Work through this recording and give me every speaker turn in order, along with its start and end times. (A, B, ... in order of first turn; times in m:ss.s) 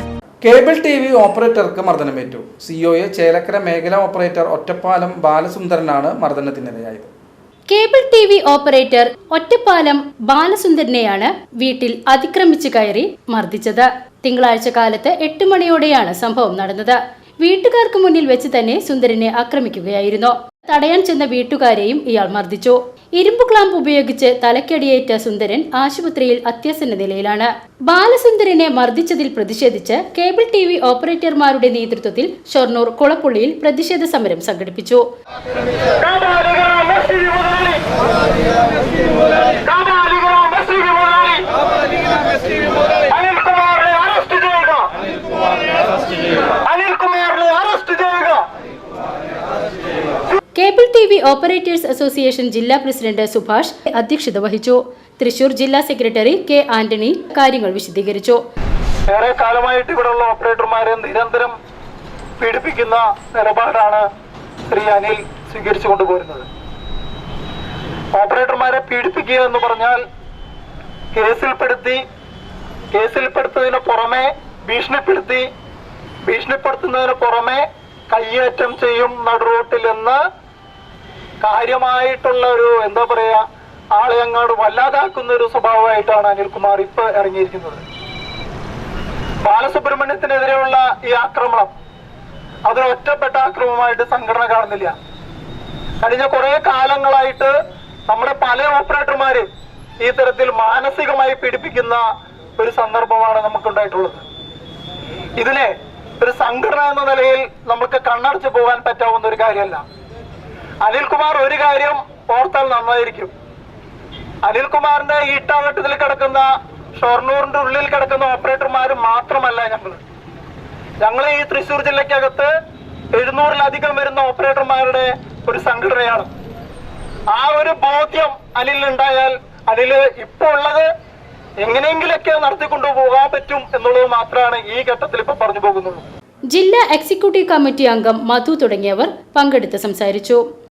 0:00.4-0:07.1 A
0:07.7-0:35.0 B
0:36.0-0:37.8 C
0:39.6-0:41.4 C
0:43.1-0:44.9 C
0:46.6-0:48.4 C
0:50.6-0:58.4 B
0:59.1-1:01.5 C
1:02.4-1:04.0 C
1:04.7-1:06.4 C
1:08.1-1:10.0 C
1:11.1-1:12.0 C
1:12.9-1:15.5 C
1:16.2-1:20.2 C
1:21.4-1:23.4 C
1:23.9-1:27.8 C
1:29.4-1:31.7 C
1:32.7-1:34.9 C
1:36.0-1:37.5 C
1:38.1-1:39.4 C
1:40.0-1:42.0 C
1:42.6-1:44.2 C
1:45.4-1:49.8 C
1:50.8-1:53.3 C
1:54.4-2:00.0 C
2:01.0-2:02.5 C
2:03.1-2:06.3 C
2:07.3-2:10.9 C
2:11.6-2:16.0 C
2:16.5-2:20.4 B